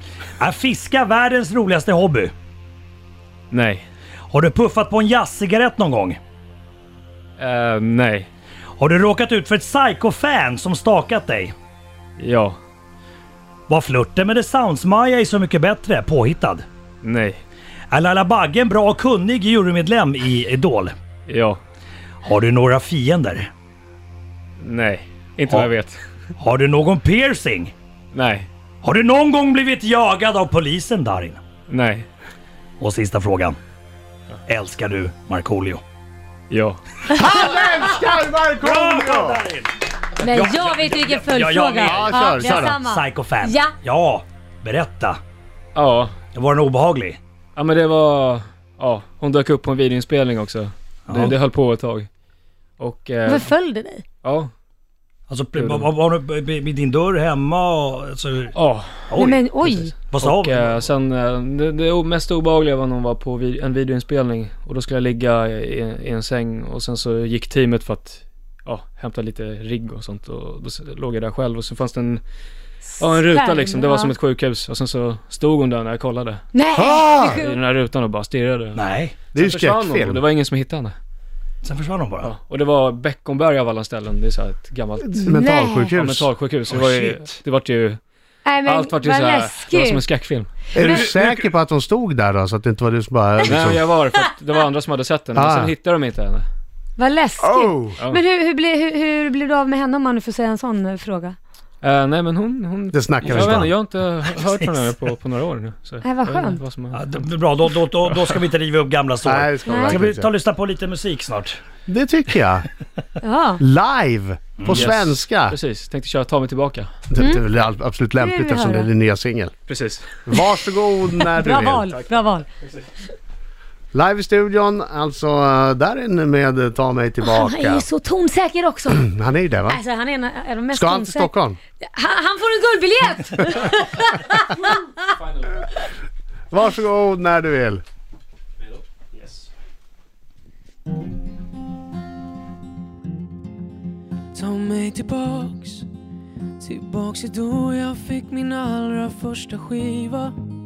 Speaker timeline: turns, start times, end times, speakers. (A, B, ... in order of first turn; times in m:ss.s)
0:00.4-0:02.3 A
0:03.5-0:03.9 B
0:04.3-0:06.2 A
0:07.4-0:08.3 B
0:08.8-0:11.6 A
0:12.2-0:12.6 B
0:13.7-0:16.7 A
0:17.0-0:17.4 B
0:17.9-0:21.0 A
0:21.3-0:21.6 B
0:22.2-0:23.5 A
0:24.6-0:26.0 B
0:26.4-0:27.7 A
0:28.1-0:28.5 B
0:28.8-0:31.4 A
0:31.7-0:32.1 B
0:32.8-0:33.6 A
0:34.5-0:35.8 A
0:36.5-0:36.8 B
0:37.1-0:39.4 C
0:38.6-0:45.2 A
0:40.2-0:43.7 D
0:41.8-0:42.8 C
0:45.8-0:46.1 B
0:46.4-0:47.2 A
0:47.6-0:52.1 B
0:51.1-0:51.4 A
0:52.8-0:53.5 B
0:53.3-0:54.0 D
0:54.2-0:54.5 B
0:55.3-0:58.5 A
0:55.6-0:55.9 B
0:58.6-0:59.1 B
0:59.1-0:59.5 A
0:59.1-0:59.9 D
0:59.6-1:12.2 B
1:00.1-1:00.8 A
1:12.9-1:14.1 D
1:13.0-1:16.4 B
1:16.5-1:17.6 D
1:16.8-1:17.4 C
1:17.2-1:21.0 B
1:18.8-1:19.2 A
1:19.3-1:20.2 C
1:21.6-1:22.3 A
1:22.2-1:25.4 B
1:25.1-1:26.8 C
1:25.3-1:25.9 D
1:26.0-1:28.0 B
1:26.7-1:27.2 A
1:28.4-1:30.0 D
1:28.6-1:30.5 B
1:30.7-1:31.1 D
1:30.7-1:33.9 C
1:33.5-1:36.5 B
1:35.4-1:35.8 C
1:37.0-1:41.4 D
1:37.4-1:38.0 C
1:41.8-1:47.2 B
1:42.9-1:43.7 C
1:44.2-1:44.9 A
1:46.0-1:46.6 D
1:46.9-1:51.6 A
1:49.2-1:50.3 C
1:49.7-1:50.0 D
1:51.9-1:52.7 C
1:53.2-1:53.6 D
1:53.6-1:55.6 C
1:54.6-1:54.9 A
1:54.7-1:56.9 B
1:57.1-1:59.5 C
1:57.2-1:57.4 D
1:58.2-1:58.9 D
1:59.7-2:00.1 B
2:00.3-2:01.9 C
2:01.4-2:02.5 D
2:03.9-2:07.8 C
2:07.3-2:09.1 D
2:08.9-2:09.8 C
2:09.7-2:14.9 D
2:10.7-2:11.6 C
2:15.1-2:15.6 B
2:16.5-2:17.8 C
2:18.6-2:19.5 B
2:24.3-2:25.9 E
2:26.6-2:30.4 E